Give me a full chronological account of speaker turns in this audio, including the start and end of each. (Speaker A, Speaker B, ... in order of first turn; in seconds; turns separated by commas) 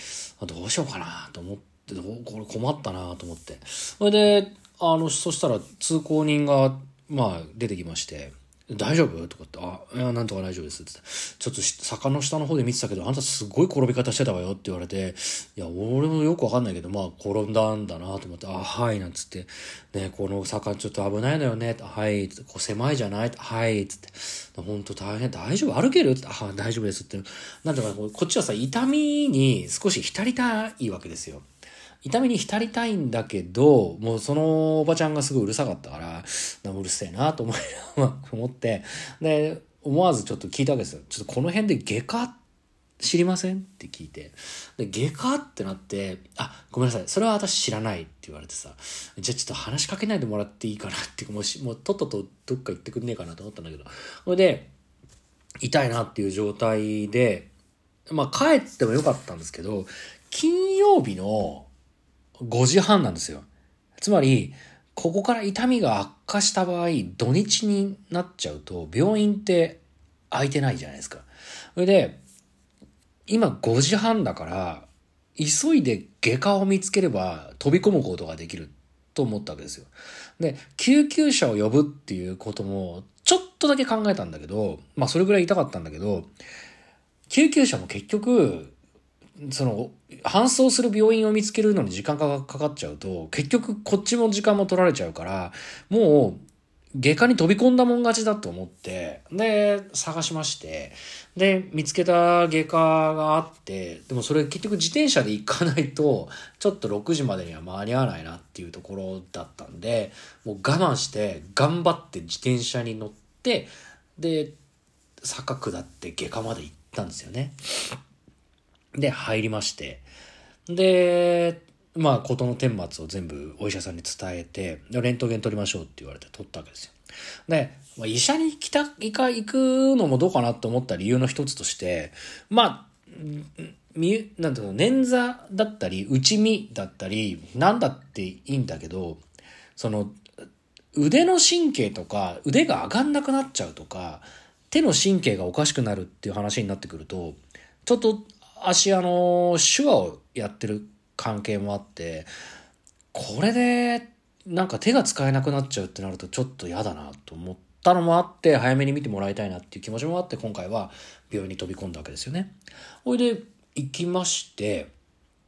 Speaker A: 0.4-31.4, Speaker A: 32.0-42.4, Speaker A: 43.0-54.7, Speaker A: 55.6-57.5, Speaker A: 58.1-61.7, Speaker A: 62.4-63.5, Speaker A: 64.0-72.2, Speaker A: 73.3-86.3, Speaker A: 87.3-88.7, Speaker A: 89.4-96.4, Speaker A: 96.9-114.5, Speaker A: 115.2-117.9, Speaker A: 118.9-120.1, Speaker A: 120.7-126.9, Speaker A: 127.5-139.2, Speaker A: 139.8-140.2, Speaker A: 140.9-152.3, Speaker A: 153.1-162.5, Speaker A: 163.0-164.9